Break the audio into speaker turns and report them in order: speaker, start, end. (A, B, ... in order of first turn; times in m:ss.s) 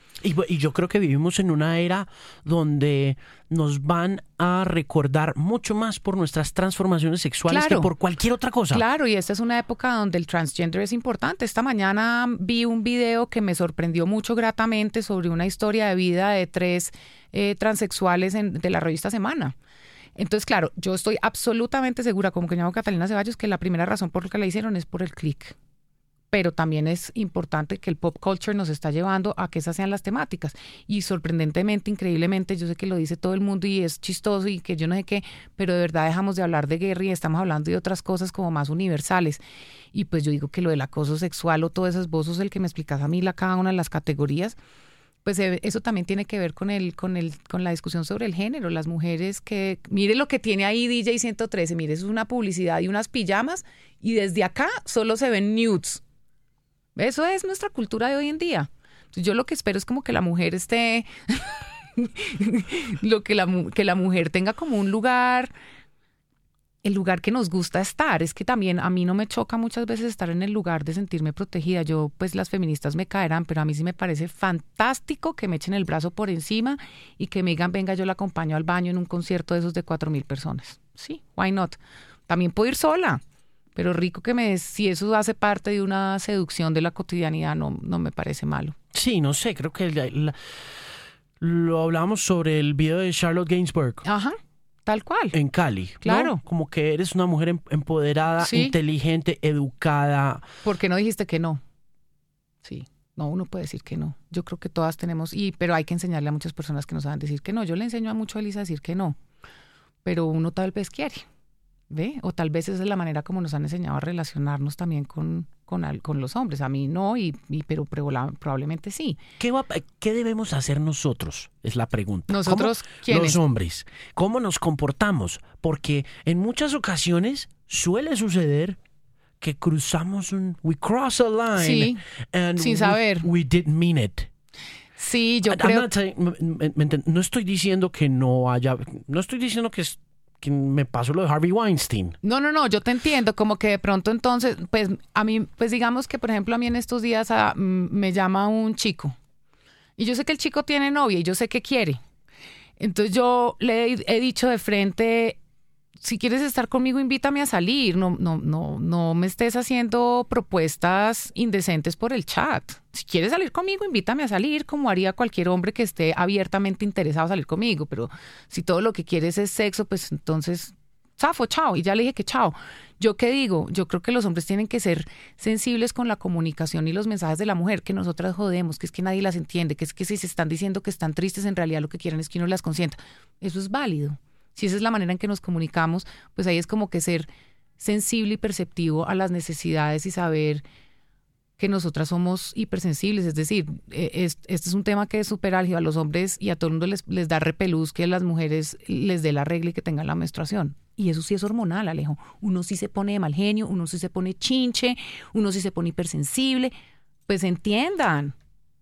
0:00.2-0:08.8 A
0:07.5-0:07.9 B
0:08.7-0:19.6 B
0:20.2-0:25.5 B
0:26.3-0:39.4 B
0:39.9-0:44.6 B
0:45.2-0:56.0 B
0:57.0-1:05.5 B
1:06.8-1:23.2 B
1:23.7-1:28.8 B
1:28.9-1:34.0 A
1:34.0-1:35.4 B
1:35.3-1:40.4 A
1:36.0-1:36.4 B
1:38.4-1:38.8 B
1:40.6-1:41.6 B
1:42.6-1:49.2 B
1:50.0-1:51.2 B
1:51.9-1:59.2 B
1:59.4-2:08.8 A
2:02.3-2:03.4 B
2:09.4-2:14.3 A
2:11.6-2:12.0 B
2:12.6-2:13.3 B
2:15.0-2:15.9 B
2:15.5-2:22.2 A
2:22.2-2:29.2 B
2:30.0-2:32.0 B
2:32.8-2:35.4 B
2:36.0-3:10.6 B
3:11.6-3:26.7 B
3:27.3-3:28.3 B